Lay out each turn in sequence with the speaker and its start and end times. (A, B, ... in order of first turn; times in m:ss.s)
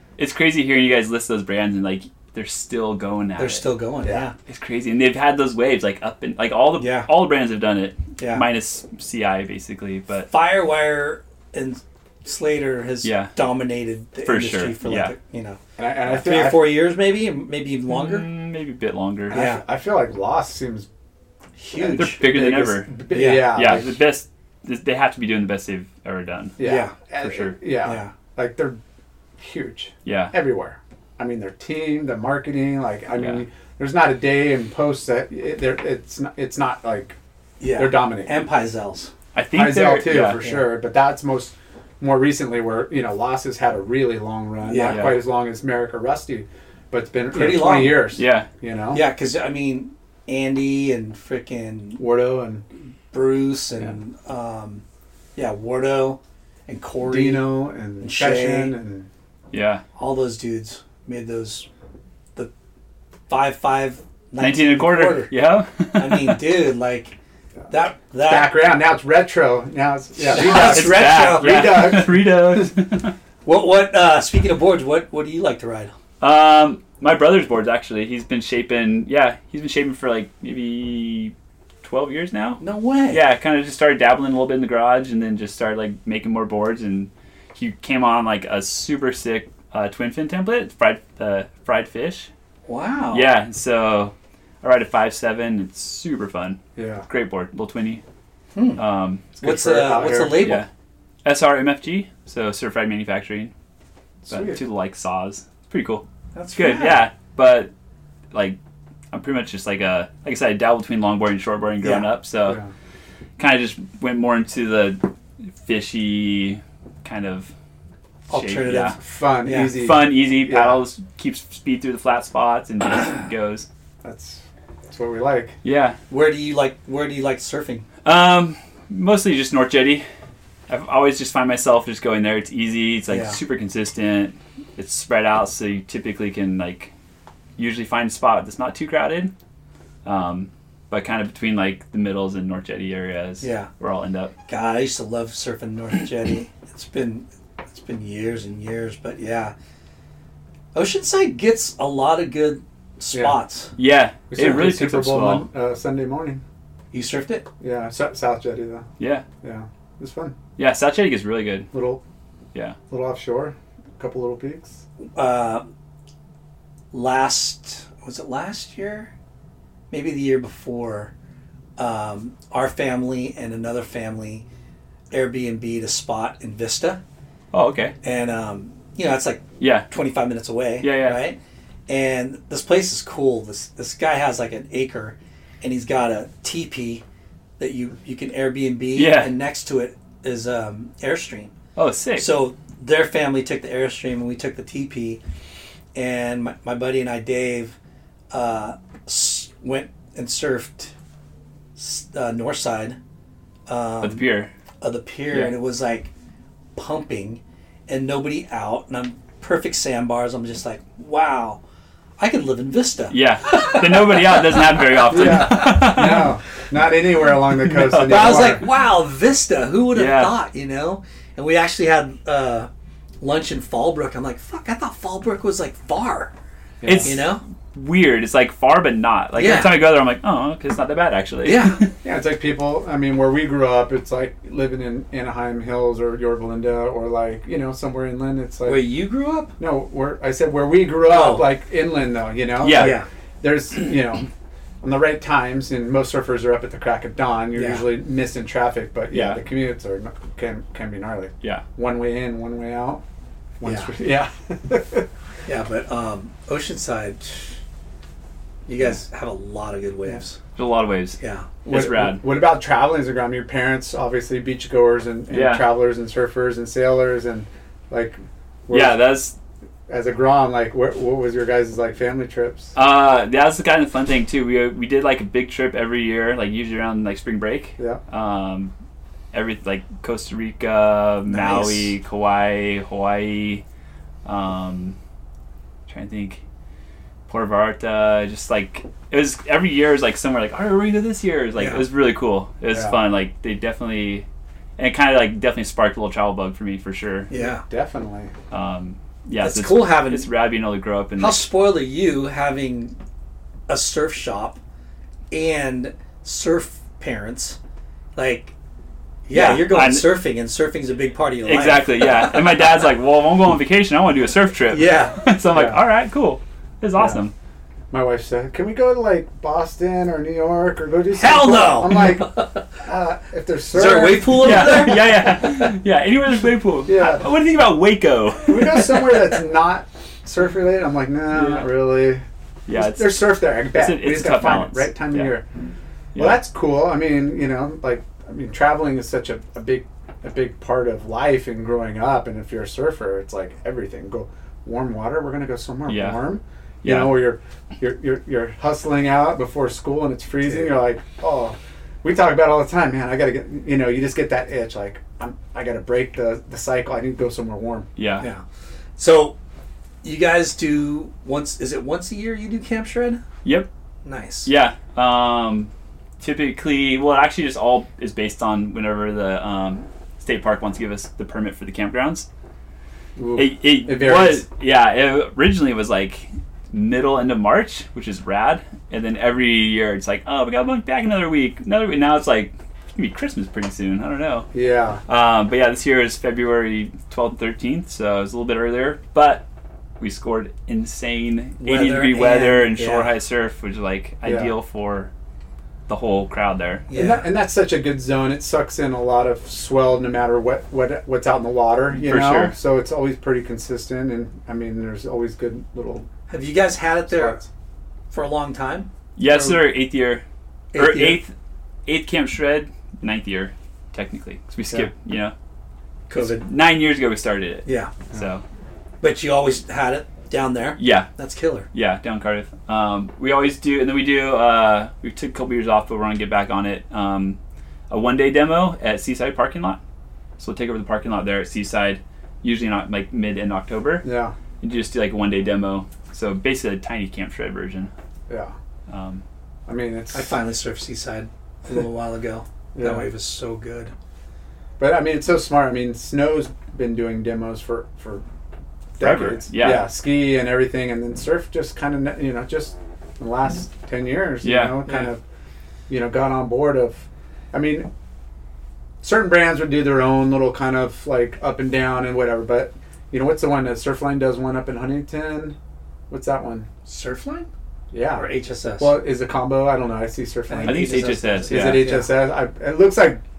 0:00.2-0:03.7 A
0:03.4-0:04.3 B
0:04.5-0:10.3 A
0:06.8-0:07.1 B
0:08.2-0:08.4 B
0:10.3-0:18.3 B
0:13.0-0:13.3 A
0:14.2-0:15.1 A
0:15.8-0:16.8 C
0:17.9-0:19.4 A
0:19.3-0:19.6 B
0:19.3-0:20.9 C
0:21.6-0:22.2 B
0:21.8-0:24.0 C
0:21.9-0:26.6 A
0:23.1-0:23.6 B
0:26.6-0:28.8 C
0:26.6-0:27.0 B
0:27.2-0:27.6 A
0:27.8-0:28.1 B
0:29.4-0:37.2 C
0:30.0-0:30.3 A
0:33.1-0:33.4 A
0:37.6-0:39.1 B
0:37.7-0:38.3 C
0:39.3-0:40.4 A
0:39.5-0:49.0 C
0:40.2-0:40.7 B
0:44.6-0:45.2 B
0:44.8-0:45.2 A
0:47.3-0:48.1 B
0:48.1-0:48.5 A
0:48.9-0:52.0 B
0:52.0-0:52.6 C
0:53.1-0:54.8 B
0:55.4-0:58.7 B
0:57.0-0:59.1 C
0:59.5-0:59.8 A
1:00.0-1:01.7 B
1:03.3-1:05.3 B
1:04.4-1:06.4 A
1:06.0-1:07.1 B
1:07.7-1:08.6 B
1:08.2-1:12.5 C
1:10.2-1:12.1 B
1:10.3-1:13.1 A
1:13.4-1:15.9 B
1:16.2-1:32.3 A
1:22.6-1:23.2 B
1:32.6-1:33.3 B
1:33.1-1:38.0 A
1:36.8-1:37.0 C
1:38.5-1:40.6 B
1:38.8-1:39.2 A
1:39.4-1:40.6 C
1:40.3-1:40.7 A
1:41.2-1:43.5 A
1:44.2-1:44.6 C
1:44.3-1:47.7 A
1:46.3-1:47.1 B
1:48.3-1:48.6 A
1:49.1-1:52.6 A
1:51.8-1:52.1 B
1:52.4-1:52.7 C
1:53.4-1:55.0 A
1:55.6-1:57.5 A
1:58.3-1:59.0 A
1:58.3-1:59.8 B
1:58.9-2:00.8 C
1:59.7-2:03.6 A
2:04.0-2:05.6 C
2:05.6-2:06.0 A
2:06.1-2:07.8 B
2:08.0-2:10.0 A
2:10.7-2:16.9 A
2:13.1-2:13.4 B
2:17.6-2:19.3 A
2:20.0-2:24.3 A
2:23.4-2:23.7 B
2:24.5-2:29.5 B
2:30.7-2:33.7 B
2:33.1-2:33.4 C
2:33.8-2:35.5 A
2:34.3-2:36.4 C
2:36.9-2:37.5 B
2:37.6-2:38.9 C
2:39.0-2:39.2 A
2:39.4-2:40.3 C
2:40.6-2:41.7 A
2:41.7-2:42.0 C
2:42.9-2:44.8 C
2:45.1-2:45.6 B
2:46.9-2:49.1 B
2:49.9-2:51.1 B
2:51.8-2:54.4 B
2:55.1-2:57.0 B
2:57.5-2:57.9 A
2:58.0-3:01.4 B
2:59.6-2:59.9 A
3:00.8-3:01.2 A
3:01.9-3:07.0 B
3:07.6-3:11.5 B
3:08.9-3:09.3 A
3:11.8-3:12.3 A
3:12.2-3:15.2 B
3:15.9-3:17.8 B
3:18.3-3:20.9 B
3:21.8-3:23.0 B
3:23.7-3:24.3 B
3:24.0-3:24.5 A
3:24.8-3:26.1 B
3:25.3-3:25.6 A
3:26.7-3:31.6 B
3:32.2-3:36.2 B
3:33.1-3:36.3 A
3:35.1-3:38.6 C
3:37.6-3:38.6 A
3:38.0-3:42.7 B
3:39.9-3:40.4 A
3:43.2-3:46.3 B
3:46.8-3:47.2 C
3:46.8-3:51.9 A
3:47.0-3:47.4 B
3:49.3-3:49.9 B
3:51.4-3:51.8 B
3:52.0-3:58.8 C
3:58.6-3:59.5 B
3:59.6-4:04.3 C
4:01.1-4:01.5 B
4:02.6-4:03.0 A
4:02.7-4:03.0 B
4:04.8-4:13.0 C
4:07.5-4:07.8 B
4:09.1-4:09.4 A
4:13.6-4:15.1 C
4:13.6-4:13.9 B
4:15.5-4:17.5 B
4:18.7-4:20.4 B
4:20.6-4:22.2 A
4:21.2-4:21.6 B
4:21.6-4:29.0 C
4:25.3-4:25.7 A
4:28.7-4:29.3 A
4:29.9-4:32.7 C
4:32.8-4:38.7 A
4:39.3-4:43.6 A
4:41.3-4:41.9 B
4:44.2-4:45.0 A
4:45.9-4:46.4 A
4:47.3-4:54.2 A
4:51.6-4:51.8 B
4:52.7-4:53.0 C
4:54.8-4:57.3 A
4:57.3-4:57.6 B
4:57.4-4:58.3 C
4:58.5-5:01.5 A
4:59.4-5:00.3 B
5:01.2-5:03.0 B
5:03.7-5:04.6 B
5:05.3-5:07.6 B
5:08.2-5:08.5 B
5:09.3-5:12.7 B
5:09.3-5:10.1 A
5:11.4-5:17.3 A
5:14.7-5:15.2 B
5:15.5-5:15.8 C
5:17.9-5:25.1 C
5:21.1-5:22.6 B
5:23.7-5:25.2 B
5:24.3-5:29.2 A
5:26.8-5:27.3 C
5:28.4-5:35.4 C
5:31.3-5:31.7 A
5:32.7-5:35.3 A
5:36.1-5:36.4 A
5:36.1-5:57.9 C
5:45.9-5:46.2 A
5:46.8-5:47.3 A
5:58.0-5:58.2 A
5:59.0-5:59.3 B
6:00.0-6:03.2 B
6:04.0-6:04.5 B
6:04.4-6:12.3 A
6:13.2-6:14.4 C
6:13.4-6:24.5 A
6:24.5-6:25.0 C
6:25.1-6:29.4 A
6:30.0-6:35.1 A
6:31.6-6:33.1 B
6:34.2-6:34.5 C
6:35.9-6:36.8 A
6:36.9-6:37.2 B
6:36.9-6:46.1 C
6:41.9-6:42.5 A
6:46.3-6:47.4 B
6:47.1-6:47.4 C
6:48.1-6:48.9 B
6:49.2-6:51.3 A
6:49.2-6:49.6 C
6:50.7-6:51.2 B
6:51.8-6:55.3 A
6:56.1-6:56.5 B
6:56.1-6:58.4 A
6:57.6-6:57.9 B
6:59.0-7:01.7 B
7:00.8-7:01.1 A
7:01.7-7:07.4 A
7:07.9-7:09.8 A
7:10.4-7:14.0 A
7:14.0-7:14.3 C
7:14.6-7:17.9 A
7:18.3-7:18.5 C
7:18.9-7:19.2 A
7:19.7-7:20.3 C
7:20.1-7:23.9 B
7:22.7-7:23.1 C
7:24.8-7:28.2 C
7:29.0-7:35.2 C
7:29.0-7:29.9 A
7:34.4-7:34.8 A
7:35.9-7:37.9 C
7:39.0-7:45.6 C
7:46.1-7:46.7 C
7:46.8-7:47.5 B
7:47.9-7:53.2 C
7:48.1-7:48.9 B
7:50.5-7:52.1 B
7:50.6-7:51.9 A